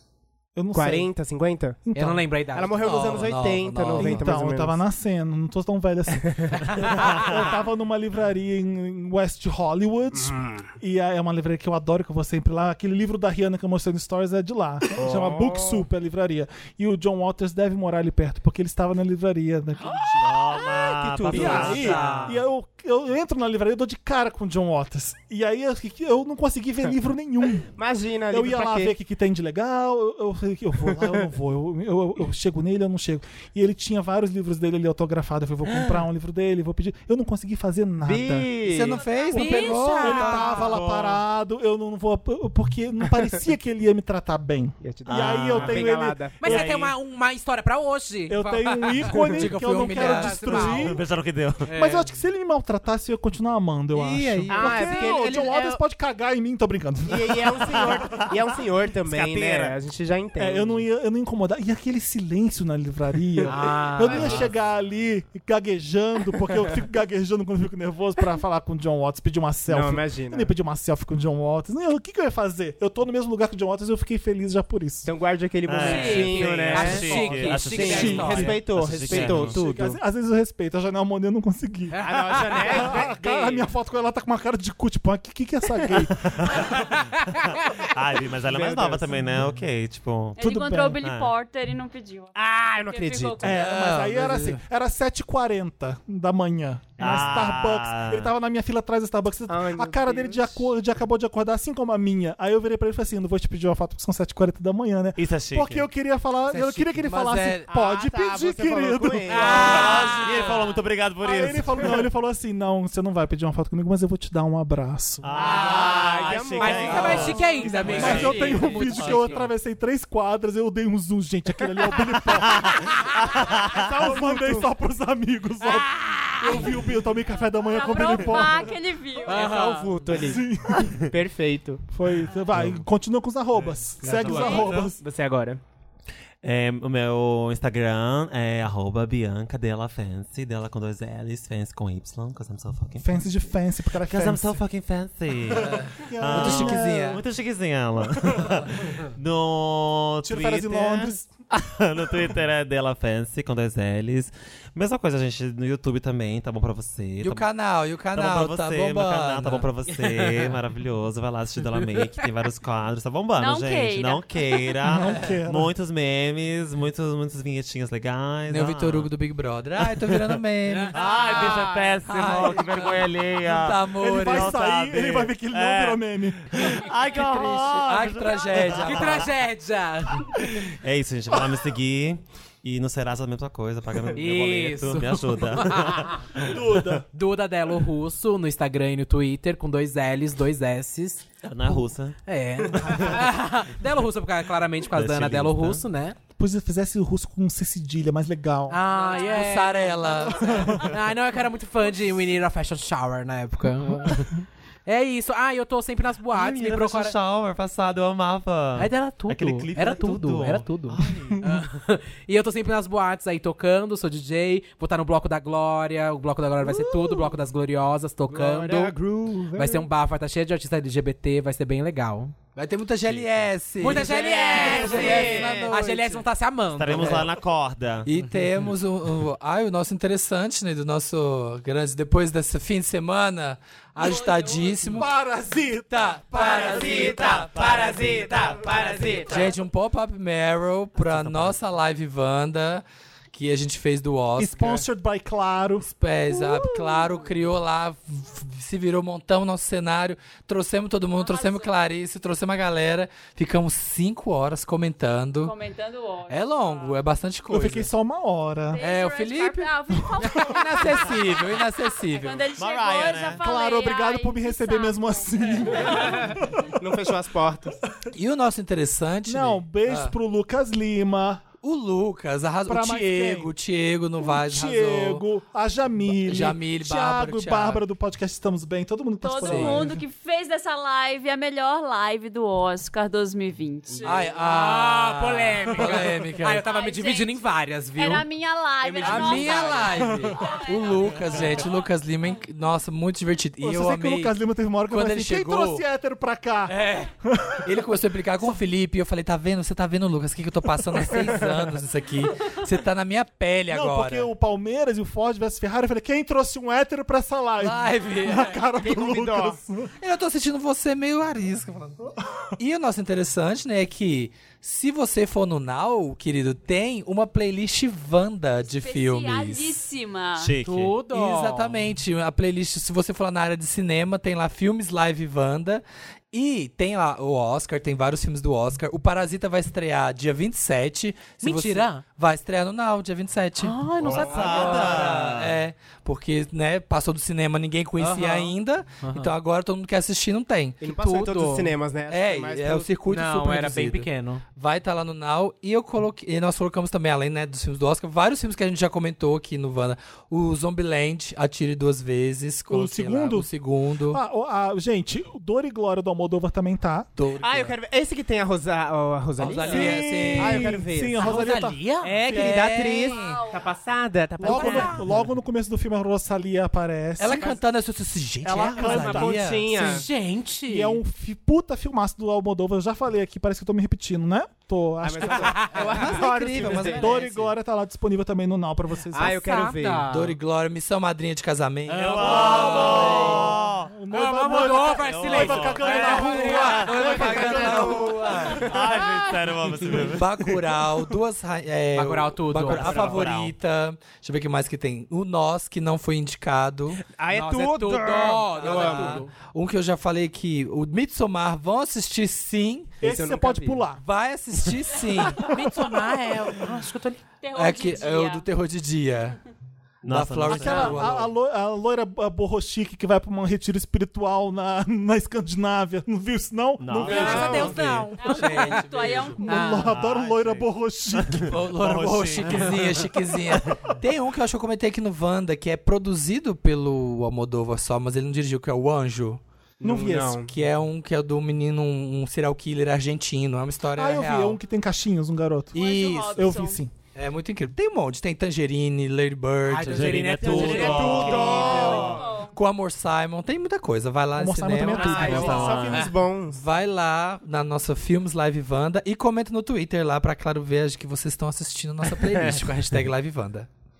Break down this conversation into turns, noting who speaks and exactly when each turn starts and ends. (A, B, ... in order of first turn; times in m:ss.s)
0:00.6-0:01.1 A
0:00.7-0:01.8 B
0:01.8-0:02.3 A
0:01.9-0:03.0 C
0:02.5-0:04.8 B
0:02.8-0:04.3 D
0:04.0-0:20.4 A
0:06.2-0:07.4 B
0:06.7-0:07.1 C
0:10.1-0:10.6 B
0:15.0-0:15.8 B
0:20.2-0:22.3 B
0:20.2-0:22.4 E
0:21.3-0:27.7 A
0:21.4-0:21.8 D
0:27.6-0:28.9 B
0:28.3-0:38.5 A
0:30.9-0:31.2 B
0:38.0-0:39.0 B
0:38.7-0:40.7 D
0:38.9-0:39.9 F
0:39.3-0:40.8 C
0:39.3-0:46.6 A
0:40.6-0:41.2 E
0:44.8-0:46.6 B
0:45.1-0:46.9 E
0:46.4-0:50.9 C
0:48.3-0:51.0 A
0:49.2-0:50.8 D
0:50.7-0:51.7 E
0:51.6-0:52.1 C
0:51.7-0:58.2 A
0:54.1-0:54.5 E
0:54.2-0:54.5 D
0:54.5-0:55.8 B
0:57.1-1:00.8 B
0:57.8-0:58.3 E
0:59.0-0:59.8 E
1:00.4-1:15.1 A
1:03.4-1:04.5 B
1:03.5-1:04.5 C
1:04.1-1:04.5 E
1:09.7-1:10.5 B
1:15.0-1:20.0 B
1:15.7-1:19.6 E
1:15.8-1:18.6 C
1:17.8-1:26.7 A
1:19.1-1:19.4 C
1:21.9-1:23.0 C
1:22.0-1:23.7 B
1:26.1-1:31.3 E
1:26.7-1:27.8 C
1:28.4-1:29.5 B
1:30.4-1:32.3 F
1:30.4-1:31.0 A
1:32.3-1:33.6 B
1:32.8-1:33.6 F
1:33.4-1:55.3 A
1:33.5-1:34.6 D
1:37.0-1:38.3 E
1:39.5-1:40.6 B
1:45.2-1:45.8 E
1:46.5-1:47.7 D
1:47.7-1:50.0 B
1:49.3-1:50.6 C
1:49.5-1:52.0 E
1:55.2-1:59.5 E
1:55.3-1:58.7 B
1:55.4-1:59.4 C
1:56.9-1:58.2 D
1:57.9-2:03.1 A
2:02.4-2:03.9 E
2:03.7-2:08.7 A
2:03.7-2:04.7 B
2:05.6-2:06.8 C
2:06.4-2:06.7 F
2:07.4-2:09.5 F
2:09.2-2:10.1 C
2:09.3-2:10.5 B
2:10.1-2:11.0 A
2:10.8-2:11.1 E
2:11.0-2:11.8 B
2:11.9-2:15.0 A
2:13.6-2:14.9 E
2:14.0-2:15.6 B
2:14.0-2:14.6 C
2:16.4-2:23.2 E
2:23.0-2:24.6 A
2:24.0-2:37.5 E
2:25.6-2:27.2 A
2:25.6-2:27.2 D
2:30.2-2:31.3 A
2:37.2-2:39.7 D
2:38.1-2:49.1 E
2:39.9-2:40.5 C
2:41.8-2:42.2 C
2:43.4-2:44.7 F
2:44.8-2:45.7 A
2:48.5-2:51.0 D
2:49.8-2:50.3 E
2:50.7-2:52.0 C
2:50.9-2:59.3 E
2:52.0-2:54.6 D
2:54.0-2:56.7 A
2:56.7-2:59.3 D
2:58.6-3:00.4 C
3:00.6-3:06.6 E
3:04.1-3:06.2 C
3:06.4-3:07.0 A
3:07.1-3:16.2 C
3:11.4-3:12.2 E
3:12.8-3:13.2 E
3:14.9-3:15.8 E
3:16.4-3:18.8 A
3:18.7-3:19.9 C
3:18.9-3:20.9 F
3:19.2-3:20.7 D
3:20.4-3:20.8 A
3:20.8-3:27.2 C
3:26.3-3:31.5 E
3:28.8-3:39.0 C
3:36.7-3:37.2 B
3:38.3-3:39.9 B
3:39.5-3:42.4 C
3:42.6-3:46.2 D
3:43.0-3:43.4 E
3:43.8-3:47.3 C
3:43.8-3:45.7 B
3:46.8-3:48.1 E
3:48.1-3:55.1 D
3:54.0-3:55.1 F
3:54.8-3:56.7 A
3:55.9-3:58.2 D
3:56.3-3:59.5 B
3:57.4-3:58.5 E
3:59.2-4:04.8 D
4:01.1-4:01.5 E
4:04.4-4:06.6 A
4:05.8-4:15.5 D
4:07.0-4:07.3 F
4:11.2-4:11.7 F
4:15.4-4:17.0 F
4:16.3-4:17.9 D
4:17.5-4:18.8 A
4:18.7-4:26.2 F
4:18.8-4:22.4 D
4:22.5-4:23.4 E
4:23.4-4:26.7 A
4:26.0-4:27.8 B
4:28.1-4:30.1 D
4:29.3-4:31.4 A
4:31.6-4:35.2 D
4:32.7-4:33.5 A
4:34.2-4:40.0 A
4:36.2-4:37.8 D
4:39.2-4:44.5 F
4:39.4-4:39.8 D
4:44.0-4:46.6 D
4:44.4-4:48.2 C
4:46.5-4:47.4 F
4:48.0-4:51.9 F
4:48.8-4:49.8 B
4:49.0-4:54.4 D
4:49.0-4:49.6 C
4:50.0-4:50.4 A
4:53.6-4:56.7 A
4:54.9-4:55.8 D
4:56.7-5:04.3 D
4:57.2-4:57.6 A
5:03.7-5:09.9 A
5:07.6-5:08.6 D
5:08.8-5:09.6 B
5:10.0-5:19.8 D
5:18.6-5:20.5 F
5:20.4-5:21.0 E
5:20.6-5:21.8 C
5:21.1-5:40.8 D
5:31.4-5:32.0 C
5:33.6-5:35.1 C
5:34.0-5:34.7 B
5:34.0-5:35.6 E
5:38.0-5:39.3 C
5:40.8-5:42.9 B
5:40.8-5:41.7 C
5:42.1-5:54.2 D
5:43.1-5:44.4 C
5:52.7-5:53.5 A
5:54.1-5:57.1 A
5:57.2-5:57.8 D
5:57.4-6:01.5 B
5:59.4-6:00.8 D
5:59.7-6:01.8 A
6:01.2-6:02.2 C
6:02.0-6:05.2 B
6:02.2-6:03.4 D
6:02.3-6:02.6 A
6:03.0-6:03.7 F
6:04.4-6:07.6 A
6:04.4-6:05.0 C
6:07.2-6:10.0 D
6:08.4-6:09.4 A
6:08.8-6:10.1 B
6:09.7-6:11.0 C
6:10.7-6:19.4 A
6:15.0-6:17.1 B
6:15.4-6:15.8 C
6:15.7-6:17.5 D
6:19.1-6:20.3 B
6:19.2-6:20.1 C
6:20.1-6:23.5 D
6:21.9-6:23.5 C
6:21.9-6:23.9 E
6:22.5-6:28.1 A
6:24.1-6:27.8 C
6:24.5-6:27.6 E
6:25.8-6:28.7 D
6:26.5-6:28.8 B
6:28.3-6:29.6 F
6:28.6-6:30.6 E
6:29.8-6:37.0 D
6:31.9-6:33.2 C
6:32.5-6:33.2 B
6:32.6-6:33.5 E
6:37.0-6:39.2 B
6:37.3-6:39.3 C
6:38.1-6:43.0 D
6:43.0-6:43.8 B
6:43.0-6:44.0 A
6:44.0-6:45.5 D
6:45.2-6:45.9 A
6:45.4-6:47.2 C
6:47.4-6:48.4 F
6:47.5-6:49.4 D
6:50.0-6:51.1 E
6:50.1-6:51.3 D
6:50.5-6:57.8 A
6:56.8-6:58.0 E
6:57.0-6:58.4 C
6:57.1-6:59.4 D
6:58.2-6:59.8 F
6:59.4-7:01.5 A
6:59.5-6:59.9 C
6:59.8-7:04.0 E
7:01.4-7:09.4 D
7:09.8-7:10.5 B
7:09.8-7:10.4 A
7:10.5-7:14.6 D
7:14.0-7:16.9 A
7:15.7-7:16.8 F
7:15.8-7:16.6 D
7:17.1-7:25.8 D
7:19.7-7:22.0 C
7:19.9-7:22.2 E
7:20.4-7:22.2 B
7:21.5-7:22.6 F
7:24.3-7:25.8 A
7:24.9-7:26.1 C
7:24.9-7:26.6 B
7:25.1-7:26.1 E
7:26.5-7:33.7 D
7:32.2-7:32.6 E